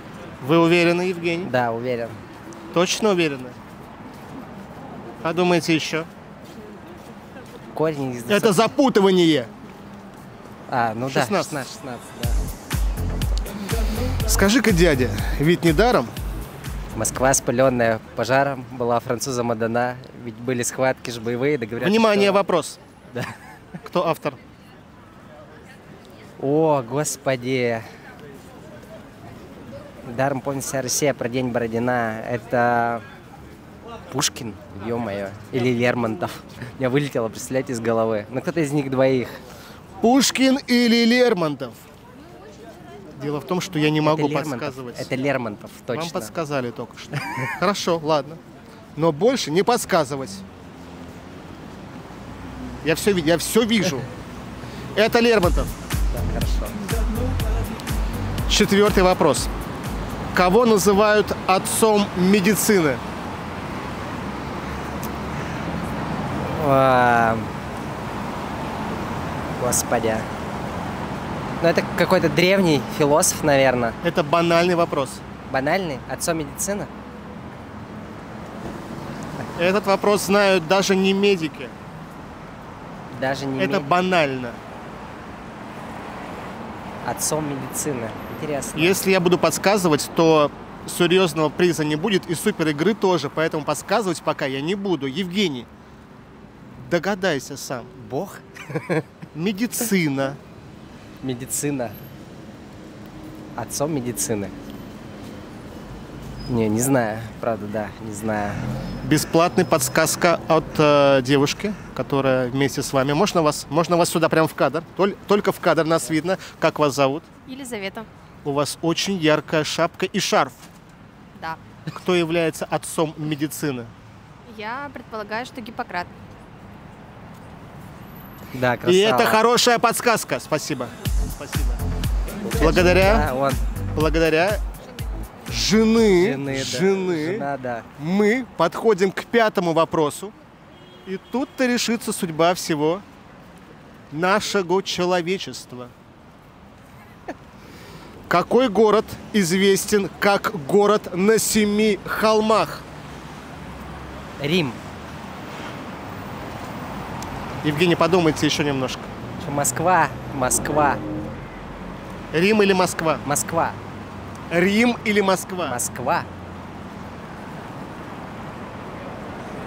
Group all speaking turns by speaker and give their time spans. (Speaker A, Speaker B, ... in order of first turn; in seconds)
Speaker A: 0.4-1.5, 2.7-3.6, 5.2-6.1, 8.3-9.5, 11.1-11.6, 14.3-16.1, 21.8-22.8, 23.8-24.4, 40.0-41.8, 43.1-45.1, 45.9-48.4, 49.0-50.4, 52.8-54.1, 54.9-55.7, 58.5-59.5, 60.3-63.0, 74.0-75.2, 79.5-81.7, 83.6-84.6, 88.7-95.7, 96.7-97.9, 99.3-100.4, 109.0-117.3, 118.4-120.7, 121.9-123.9, 128.8-131.8, 132.5-133.3, 133.9-134.6, 135.5-140.3, 141.0-143.0, 144.1-145.9, 148.3-152.8, 157.6-159.1, 162.3-163.2, 164.5-165.8
Speaker B: 1.4-2.1, 7.7-8.7, 10.7-12.4, 16.9-22.4, 26.4-27.9, 30.1-33.0, 34.1-39.4, 44.0-46.3, 56.1-56.7, 66.4-67.5, 69.6-70.3, 71.6-74.0, 75.5-76.9, 83.1-83.9, 87.0-89.0, 98.0-99.1, 101.2-102.0, 103.5-104.5, 106.5-108.6, 128.5-129.4, 132.4-133.6, 136.1-137.9, 154.4-154.8, 159.4-161.0, 163.2-163.8, 165.7-166.3
Speaker C: 117.5-118.1, 124.4-126.1